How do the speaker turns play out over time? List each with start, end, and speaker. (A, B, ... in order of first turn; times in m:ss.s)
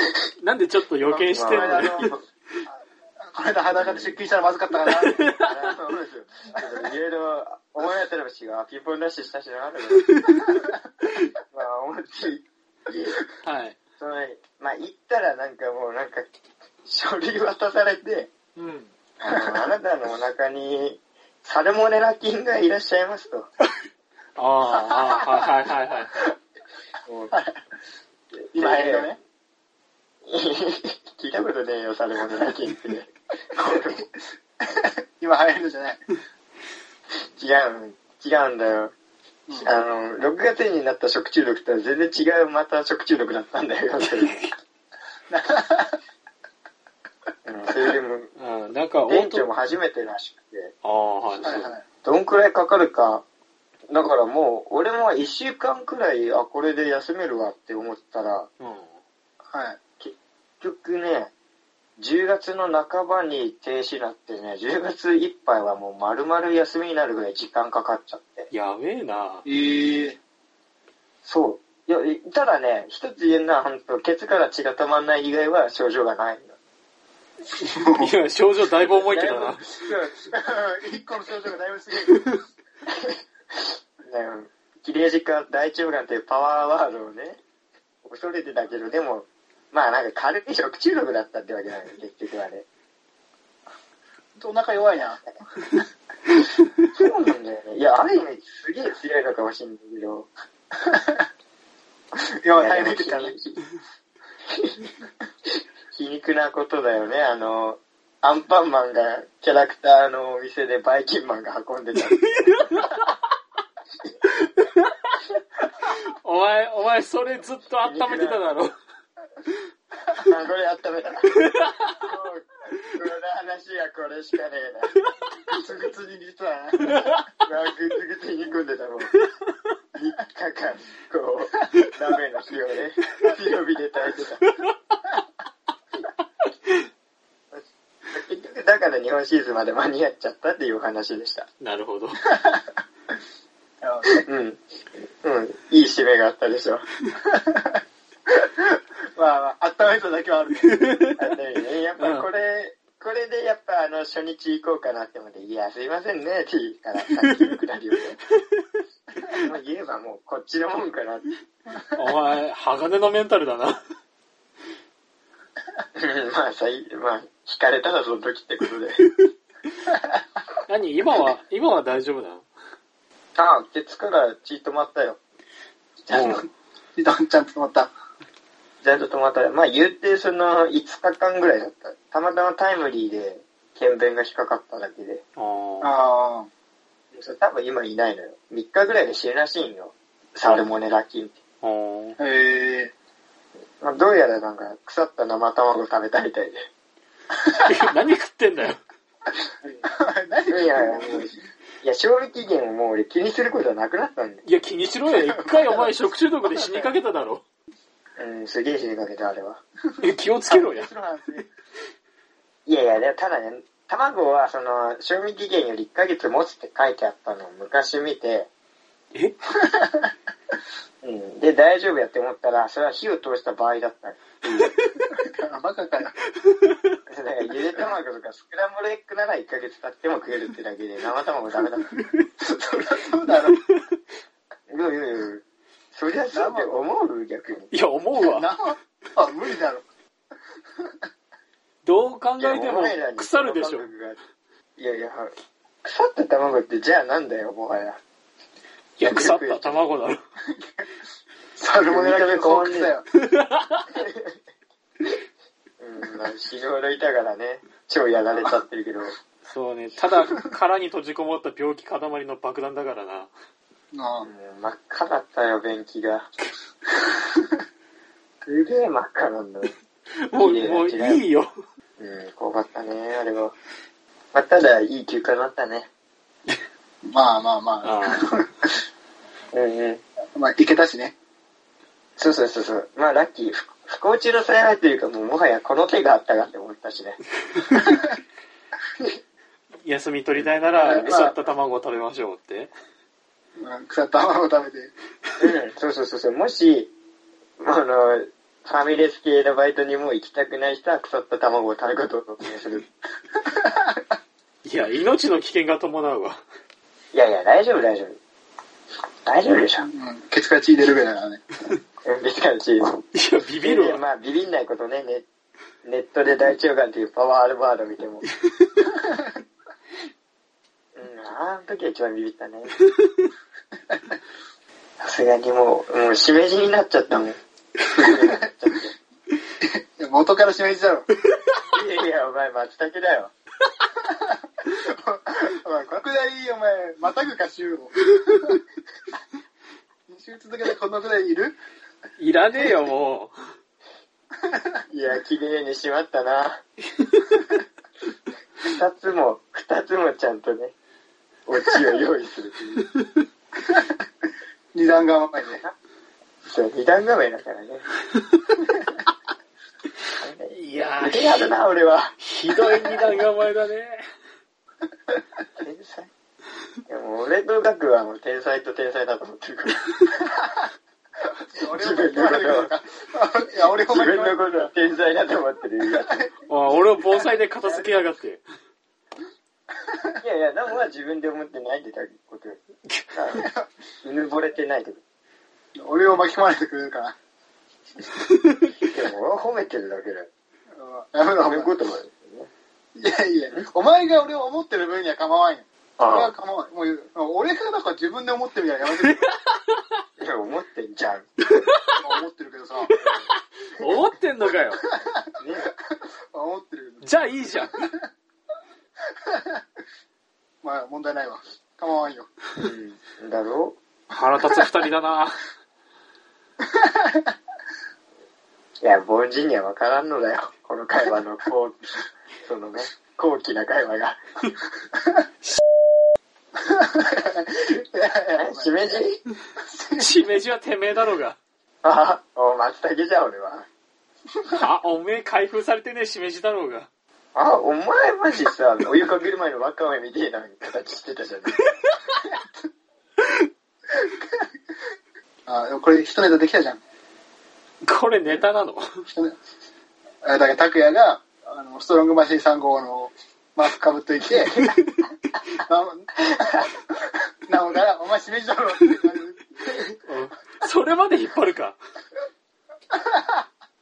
0:00.4-0:02.1 A
0:01.1-0:02.2 B
0:01.5-0:02.1 C
0:03.2-0:05.2 C
0:03.7-0:04.2 B
0:05.0-0:05.6 A
0:05.4-0:10.1 B
0:11.5-0:13.2 B
0:13.4-0:13.8 A
0:14.0-0:16.3 B
0:16.8-0:18.3 B
0:18.6-0:18.9 A
0:19.2-0:23.5 B
0:19.2-0:19.6 C
0:24.4-0:26.3 A
0:27.0-0:27.3 B
0:27.3-0:27.6 C
0:28.3-0:29.1 B
0:28.5-0:29.2 C
0:30.3-0:34.0 B
0:34.6-0:36.0 C
0:37.4-0:38.9 B
0:39.6-0:44.5 B
0:45.3-0:46.0 C
0:47.4-0:48.3 B
0:48.4-0:49.5 A
0:49.1-0:50.7 B
0:50.8-0:51.7 A
0:51.4-0:51.8 C
0:52.0-0:53.2 B
0:53.9-0:58.5 B
0:58.6-0:59.0 A
0:59.5-0:59.8 C
1:00.0-1:01.3 B
1:02.0-1:08.5 B
1:08.5-1:09.4 A
1:09.4-1:10.2 C
1:11.2-1:16.5 B
1:17.6-1:19.9 A
1:17.6-1:18.1 C
1:19.0-1:20.2 B
1:20.3-1:22.4 C
1:24.0-1:27.4 B
1:28.0-1:32.6 B
1:34.4-1:35.2 C
1:36.9-1:40.3 B
1:40.8-1:41.2 C
1:42.2-1:43.3 C
1:42.5-1:43.6 B
1:44.5-1:44.8 B
1:45.9-1:52.6 B
1:52.4-1:53.0 A
1:55.9-1:58.7 A
1:57.8-1:58.4 B
2:00.1-2:04.9 B
2:05.5-2:07.0 C
2:07.4-2:09.1 B
2:09.9-2:14.5 B
2:17.5-2:21.5 B
2:21.6-2:22.2 A
2:22.3-2:22.6 C
2:23.8-2:24.1 C
2:24.1-2:26.8 B
2:27.2-2:27.8 C
2:28.4-2:31.0 C
2:30.7-2:31.2 A
2:31.2-2:38.2 B
2:32.0-2:32.3 A
2:37.1-2:37.5 A
2:39.3-2:41.3 B
2:41.9-2:43.8 A
2:46.0-2:49.1 B
2:50.7-2:52.4 A
2:53.4-2:55.2 B
2:56.1-2:56.4 B
2:56.1-2:56.4 A
2:57.0-2:57.9 C
2:58.8-3:05.2 B
3:05.4-3:05.9 A
3:05.8-3:06.5 C
3:07.1-3:11.3 B
3:11.6-3:12.2 A
3:12.2-3:12.9 C
3:13.8-3:16.7 B
3:17.4-3:17.7 C
3:17.6-3:18.8 A
3:19.8-3:21.4 C
3:20.5-3:24.4 B
3:24.4-3:27.4 A
3:25.1-3:25.9 C
3:26.5-3:26.8 C
3:28.2-3:29.6 B
3:30.0-3:30.9 A
3:30.5-3:31.5 C
3:32.6-3:38.5 B
3:39.5-3:40.1 C
3:41.0-3:44.7 B
3:44.5-3:45.0 A
3:45.1-3:46.2 C
3:47.1-3:52.0 B
3:52.4-3:53.6 C
3:54.7-3:57.7 B
3:56.3-3:56.8 C
3:57.7-3:58.5 A
3:58.2-3:59.8 C
4:01.8-4:03.9 A
4:02.4-4:04.2 B
4:04.8-4:05.3 B
4:05.8-4:08.0 B
4:09.0-4:10.2 A
4:09.1-4:09.8 B
4:10.5-4:10.8 C
4:11.6-4:13.0 C
4:11.9-4:12.9 B
4:13.2-4:13.8 A
4:13.9-4:14.4 B
4:15.8-4:19.1 B
4:19.4-4:23.3 A
4:23.9-4:24.3 C
4:24.2-4:26.3 B
4:28.4-4:29.7 B
4:30.1-4:31.5 A
4:30.4-4:31.2 B
4:32.0-4:33.5 B
4:34.3-4:35.9 B
4:37.0-4:38.7 C
4:37.8-4:38.3 A
4:39.5-4:40.0 B
4:40.3-4:41.1 C
4:42.2-4:47.2 B
4:47.7-4:48.0 C
4:49.8-4:52.7 A
4:50.7-4:51.3 C
4:50.8-4:51.4 B
4:53.6-4:54.9 C
4:55.4-4:56.9 B
4:57.6-5:02.8 B
5:03.6-5:03.9 C
5:04.6-5:06.4 A
5:07.1-5:08.2 B
5:09.2-5:09.9 B
5:09.8-5:11.4 C
5:12.0-5:13.0 B
5:13.1-5:14.0 A
5:13.6-5:15.2 B
5:15.8-5:18.2 B
5:20.9-5:22.8 B
5:25.0-5:27.4 B
5:27.9-5:29.0 B
5:29.6-5:31.1 C
5:31.7-5:33.3 B
5:34.1-5:38.6 C
5:40.1-5:41.6 C
5:42.2-5:43.4 A
5:44.5-5:44.7 C
5:44.9-5:46.6 B
5:48.6-5:50.7 B
5:51.5-5:52.8 B
5:54.7-5:55.6 C
5:56.4-5:57.8 B
6:00.2-6:02.2 B
6:00.5-6:01.4 A
6:02.2-6:04.0 A
6:05.6-6:06.1 B
6:06.9-6:10.0 B
6:11.5-6:14.7 C
6:11.6-6:12.7 B
6:13.8-6:16.3 B
6:16.5-6:18.4 A
6:17.6-6:18.0 B
6:20.2-6:22.6 B
6:23.1-6:23.5 B
6:23.4-6:23.6 C
6:24.0-6:25.0 B
6:25.8-6:27.1 C
6:28.8-6:30.3 B
6:30.7-6:31.7 C
6:31.4-6:32.5 B
6:33.0-6:39.3 C
6:36.0-6:36.3 B
6:40.2-6:41.2 B
6:41.5-6:41.9 A
6:42.0-6:42.9 C
6:42.9-6:44.8 A
6:45.4-6:45.7 B
6:46.3-6:47.1 C
6:47.0-6:47.9 A
6:49.2-6:49.6 C
6:50.6-6:52.3 C
6:52.6-6:53.8 B
6:54.1-6:55.4 A
6:56.7-6:57.2 C
6:58.8-7:04.2 B
7:06.6-7:08.9 C
7:08.3-7:09.2 B
7:09.6-7:10.3 C
7:10.0-7:11.4 A
7:11.8-7:13.6 B
7:14.5-7:16.9 A
7:17.3-7:21.6 B
7:25.4-7:26.8 C
7:27.8-7:28.8 A
7:30.2-7:34.7 C
7:35.6-7:39.8 C
7:40.0-7:41.8 A
7:42.9-7:43.4 C